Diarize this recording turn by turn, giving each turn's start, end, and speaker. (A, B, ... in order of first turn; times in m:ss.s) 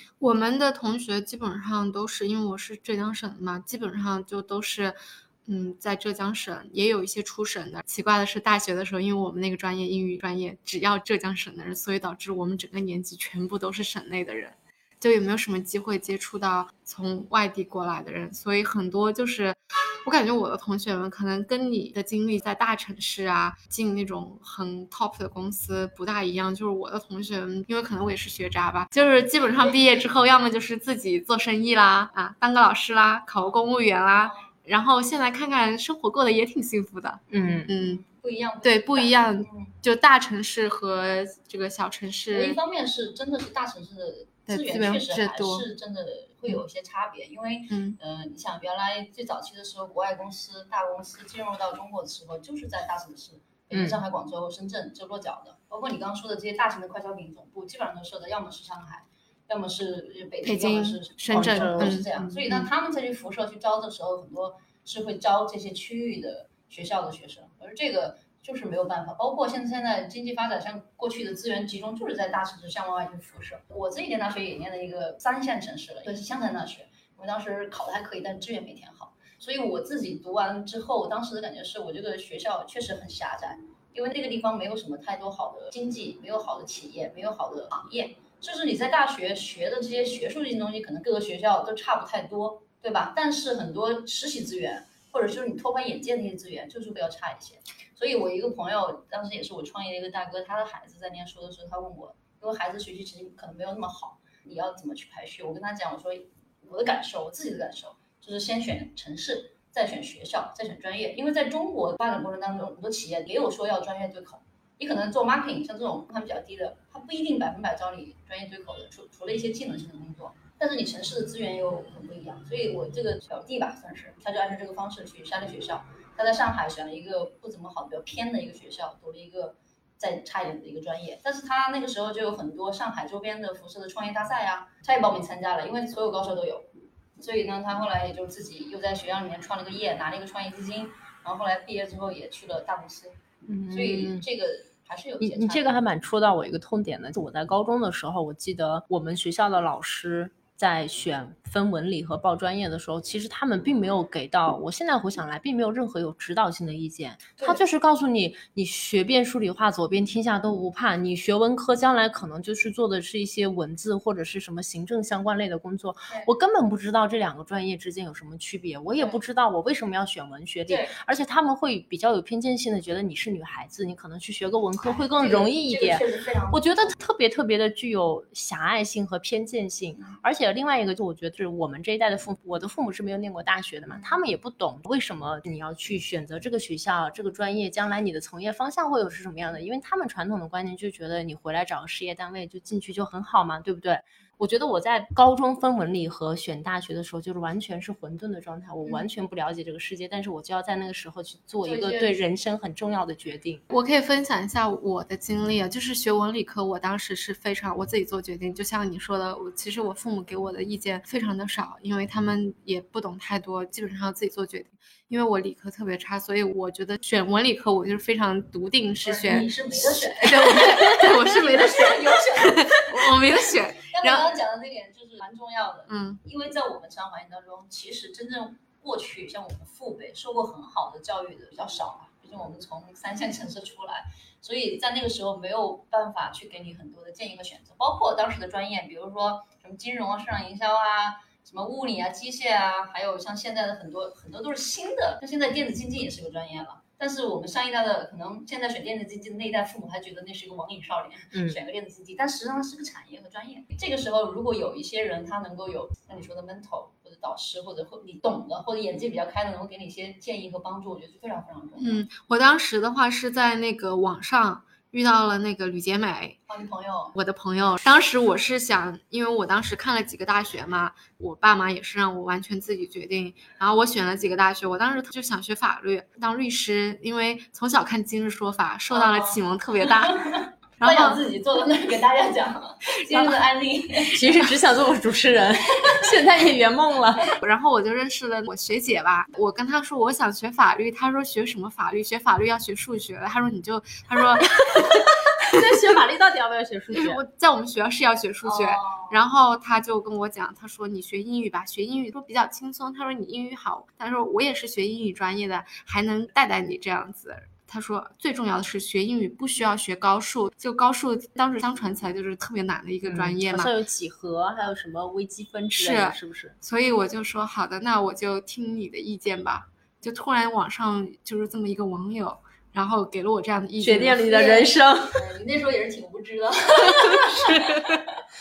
0:00.2-0:38.0 A
0:37.3-0:37.7 B
0:37.4-0:39.7 C
0:38.6-0:42.6 A
0:42.3-2:23.2 C
0:44.5-0:45.6 A
0:47.7-0:48.0 A
0:53.7-0:54.0 B
1:00.4-1:02.6 A
1:01.3-1:02.4 B
2:23.4-2:24.2 B
2:23.7-2:25.7 C
2:25.2-3:23.6 B
2:50.7-2:51.0 C
2:54.8-2:56.9 C
3:03.9-3:04.2 C
3:21.6-3:22.2 C
3:23.7-3:44.3 A
3:39.0-4:22.0 C
3:45.9-3:46.2 A
4:11.3-4:11.6 B
4:21.8-4:26.4 A
4:26.5-4:27.1 C
4:27.1-4:40.2 A
4:38.9-4:44.4 C
4:40.8-4:41.2 A
4:44.0-4:47.4 B
4:45.8-4:46.2 C
4:47.4-4:55.0 A
4:54.5-4:57.2 B
4:56.9-5:13.7 A
4:58.4-4:59.2 C
5:13.0-5:16.6 B
5:15.8-5:24.3 A
5:23.8-5:25.3 B
5:24.2-5:28.0 C